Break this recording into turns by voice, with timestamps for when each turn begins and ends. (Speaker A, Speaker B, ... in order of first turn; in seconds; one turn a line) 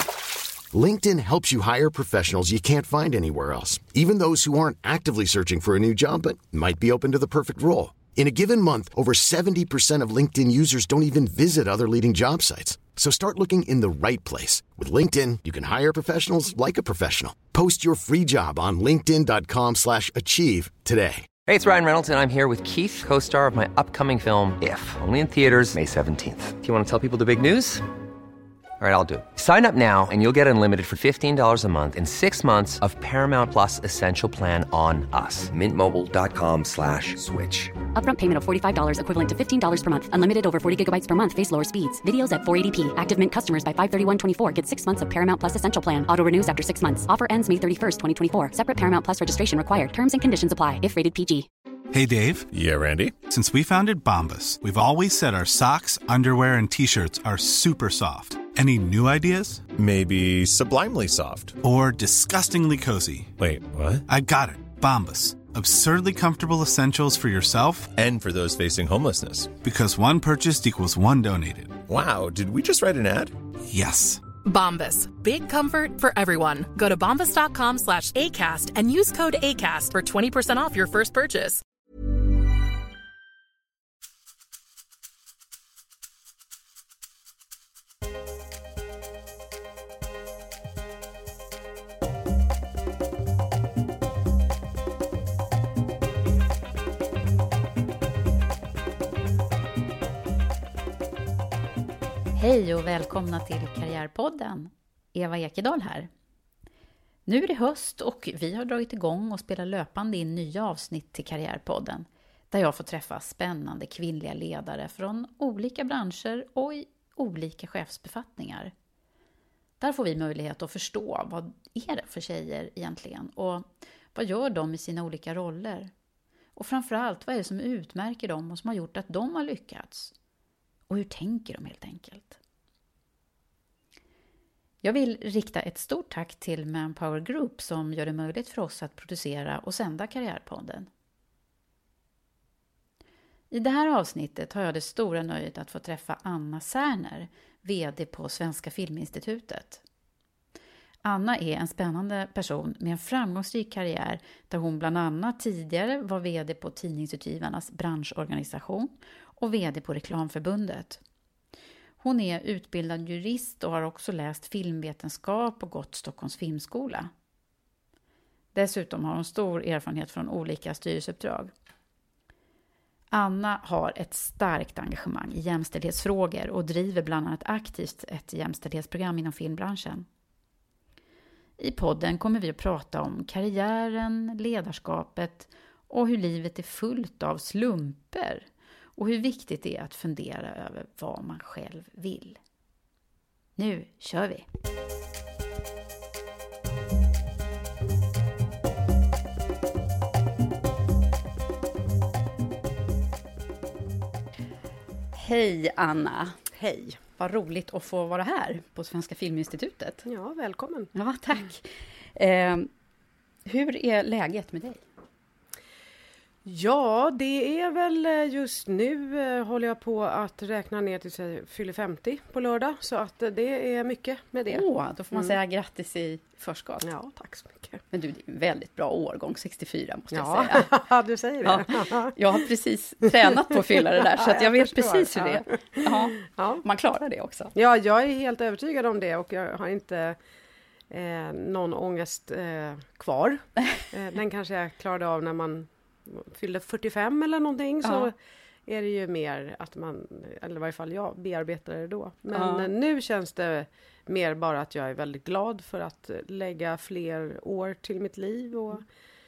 Speaker A: 0.7-21.3
Speaker B: 21.5-27.9
Speaker B: 28.8-37.7
Speaker C: 37.9-51.5
Speaker D: 51.9-52.5
Speaker E: 52.5-53.1
Speaker D: 53.3-59.6
Speaker E: 59.8-61.6
Speaker D: 61.6-63.3
Speaker E: 63.4-64.0
Speaker D: 64.1-67.9
Speaker E: 67.9-69.5
Speaker D: 69.6-71.8
Speaker E: 71.9-73.3
Speaker D: 73.7-74.2
Speaker F: 74.4-81.6
Speaker G: 102.3-106.1
Speaker G: 107.2-118.7
Speaker G: 119.8-125.9
Speaker G: 126.5-130.1
Speaker G: 130.9-132.4
Speaker G: 134.8-140.9
Speaker G: 143.5-149.8
Speaker G: 151.0-161.0
Speaker G: 162.0-167.1
Speaker G: 168.5-171.5
Speaker G: 173.1-180.1
Speaker G: 181.6-192.4
Speaker G: 193.6-194.4
Speaker G: 205.1-206.4
Speaker H: 206.5-207.0
Speaker G: 207.2-210.1
Speaker H: 210.1-210.9
Speaker G: 210.9-212.7
Speaker G: 213.4-214.8
Speaker H: 216.4-225.4
Speaker G: 224.5-226.9
Speaker H: 226.8-227.8
Speaker G: 227.9-230.7
Speaker H: 230.1-232.2
Speaker G: 231.4-237.5
Speaker H: 234.0-236.6
Speaker H: 237.5-240.2
Speaker H: 240.9-248.1
Speaker G: 247.8-248.1
Speaker H: 248.7-258.8
Speaker G: 252.3-252.7